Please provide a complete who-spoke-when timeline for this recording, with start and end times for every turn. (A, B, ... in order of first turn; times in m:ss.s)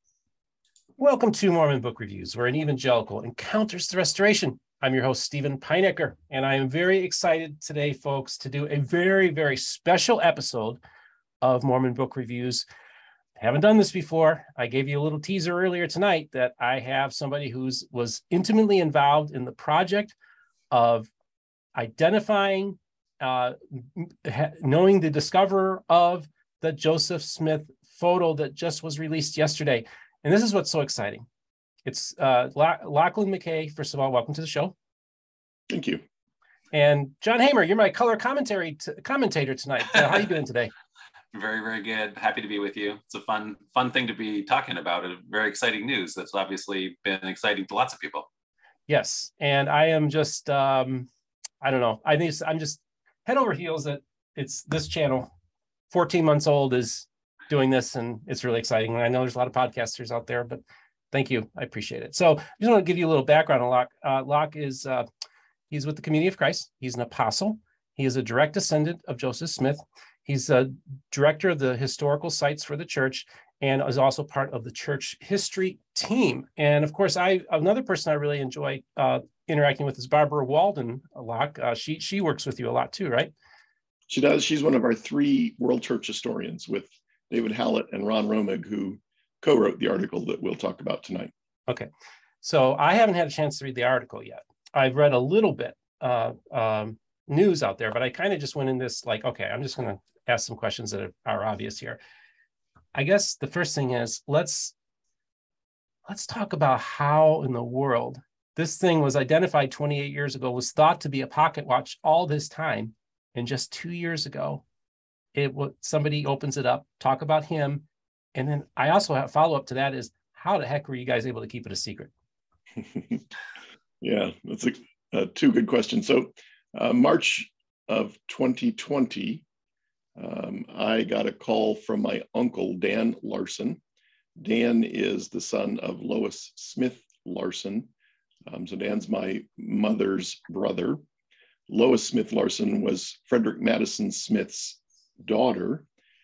0:01.0-0:10.8 A
0:11.4-0:12.6 A
0:13.4-0:20.2 A
0:20.7-0:21.1 A
0:21.7-0:31.2 A
0:31.8-0:34.7 A
0:35.7-0:36.0 B
0:36.7-0:40.7 A
0:41.3-0:48.3 C
0:48.9-0:51.1 A
0:51.6-0:55.3 A
0:55.9-1:00.6 A
1:01.1-1:05.0 A
1:05.7-1:23.3 A
1:24.1-1:31.3 B
1:32.4-1:42.0 A
1:42.9-1:44.7 A
1:46.0-1:54.6 A
1:55.3-2:02.1 A
2:02.8-2:03.2 B
2:04.0-2:09.4 B
2:10.2-2:13.8 B
2:14.4-2:17.9 B
2:18.5-2:21.0 B
2:21.7-2:25.8 B